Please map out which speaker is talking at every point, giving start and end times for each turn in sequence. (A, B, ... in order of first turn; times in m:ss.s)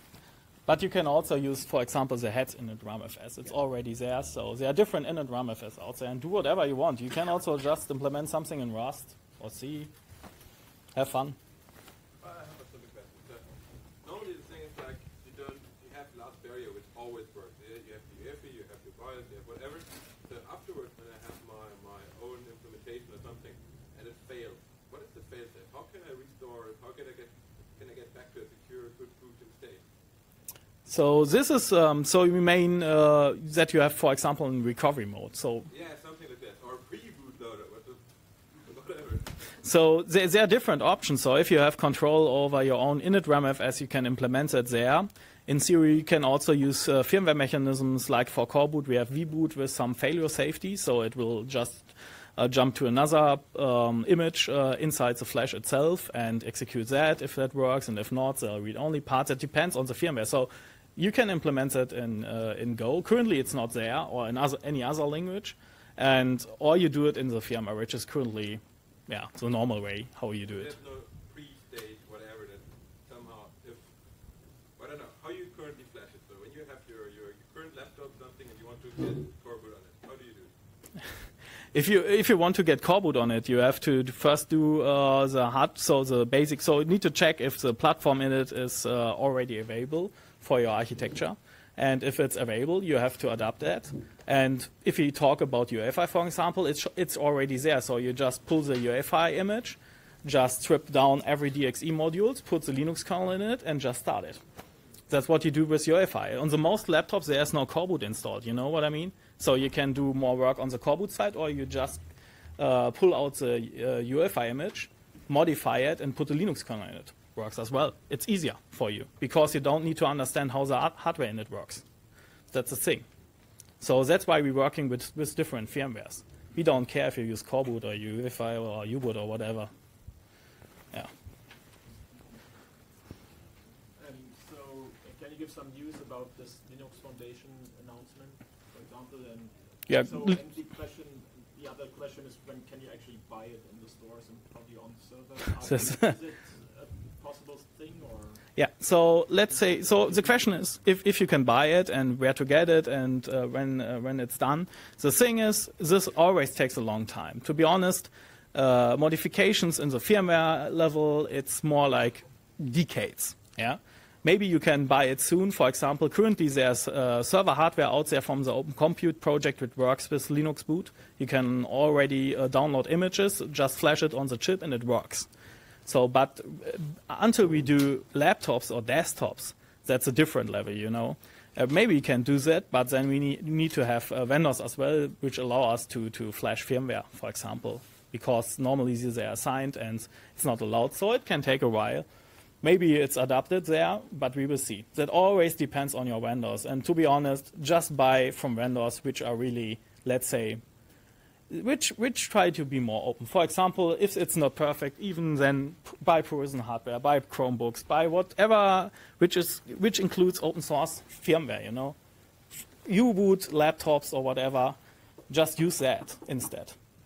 0:00.7-0:09.9 A
0:10.9-0:11.4 A
0:12.2-0:13.5 B
0:14.0-0:29.8 B
0:30.8-0:35.7 A
0:35.7-0:38.0 B
0:38.5-0:39.3 B
0:39.6-1:10.7 A
1:10.4-1:13.9 B
1:14.8-1:20.5 B
1:21.7-1:44.4 A
1:45.1-1:52.0 A
1:52.6-2:01.8 A
2:02.5-2:03.0 A
2:03.8-2:09.7 A
2:13.9-2:28.4 C
2:19.9-2:20.4 A
2:25.6-2:26.1 A
2:28.5-2:55.3 A
2:55.8-3:12.0 A
3:12.6-3:20.6 A
3:21.5-3:32.0 A
3:32.8-3:34.8 A
3:35.3-3:36.8 A